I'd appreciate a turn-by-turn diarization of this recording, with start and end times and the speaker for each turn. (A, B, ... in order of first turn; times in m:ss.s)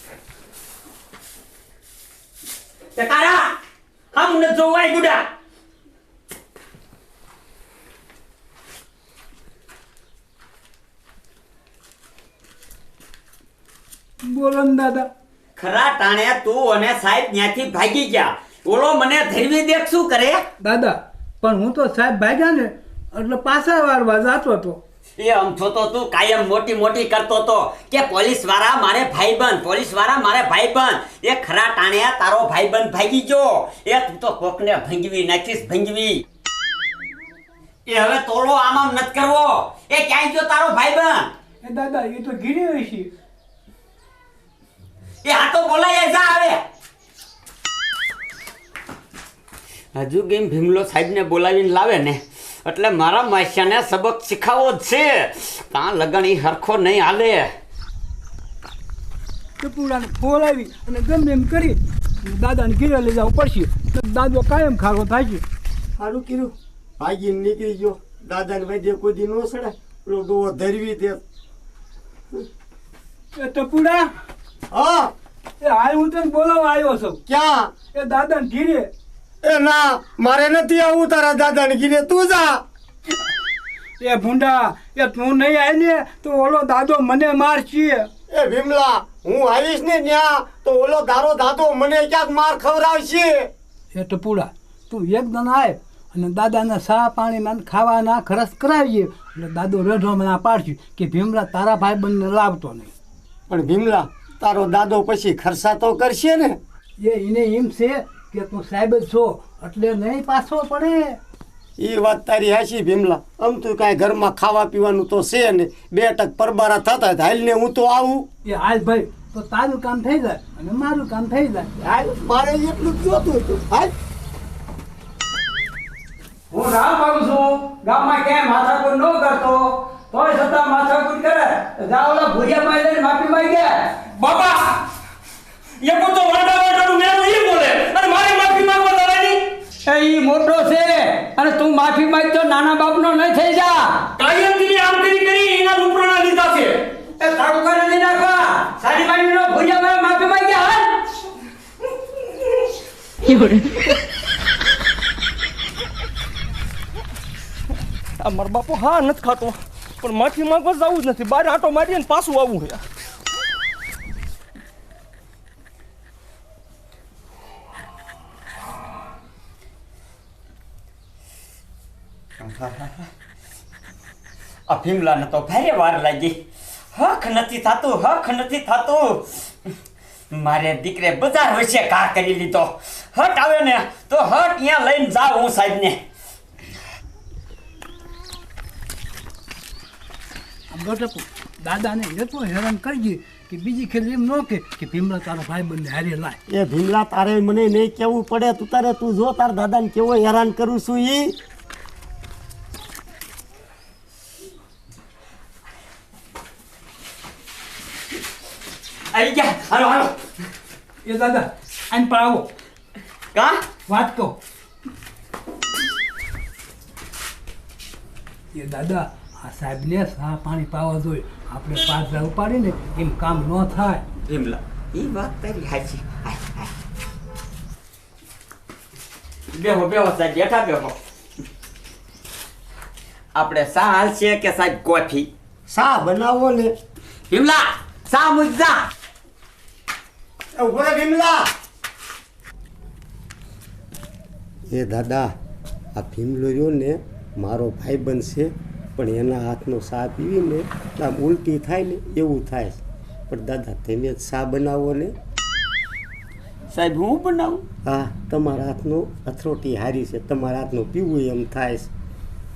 0:03.0-0:03.6 A
0:04.1-0:05.2 A
0:14.2-0:15.1 B
0:15.6-0:20.4 A
0:20.6-0:24.8 B
0:25.2-0:36.2 A
0:37.9-0:41.3 A
0:41.6-0:43.1 B
0:45.2-0:46.6 A
0:49.9-0:57.5 A
0:59.6-1:05.4 B
1:06.0-1:11.2 C
1:13.4-1:14.0 B
1:14.7-1:15.1 C
1:15.6-1:17.2 B
1:17.3-1:17.7 C
1:17.9-1:18.9 B
1:19.4-1:22.6 C
1:24.0-1:28.1 B
1:28.3-1:33.5 C
1:33.9-1:42.9 B
1:43.5-1:46.6 C
1:47.0-1:51.2 B
1:51.8-1:58.2 C
1:58.4-2:01.7 B
2:01.8-2:03.9 C
2:06.5-2:13.9 D
2:14.1-2:14.8 E
2:15.8-2:19.5 E
2:19.9-2:24.1 D
2:21.5-2:23.4 A
2:24.2-2:26.8 E
2:27.2-2:31.0 D
2:38.2-2:42.8 E
2:52.4-2:53.1 A
2:54.7-2:56.4 A
2:56.9-2:59.7 A
3:00.3-3:06.0 A
3:10.7-3:16.4 B
3:16.5-3:21.3 C
3:29.1-3:30.2 A
3:31.0-3:32.5 B
3:33.3-3:33.6 A
3:33.9-3:34.4 B
3:38.5-3:44.0 B
3:44.2-3:46.7 A
3:49.5-3:50.9 A
3:53.3-3:55.3 A
3:55.7-3:56.7 C
3:57.3-3:58.8 A
4:00.6-4:01.5 C
4:04.7-4:05.3 C
4:05.9-4:12.8 C
4:13.3-4:15.1 C
4:16.7-4:17.6 A
4:17.8-4:21.9 C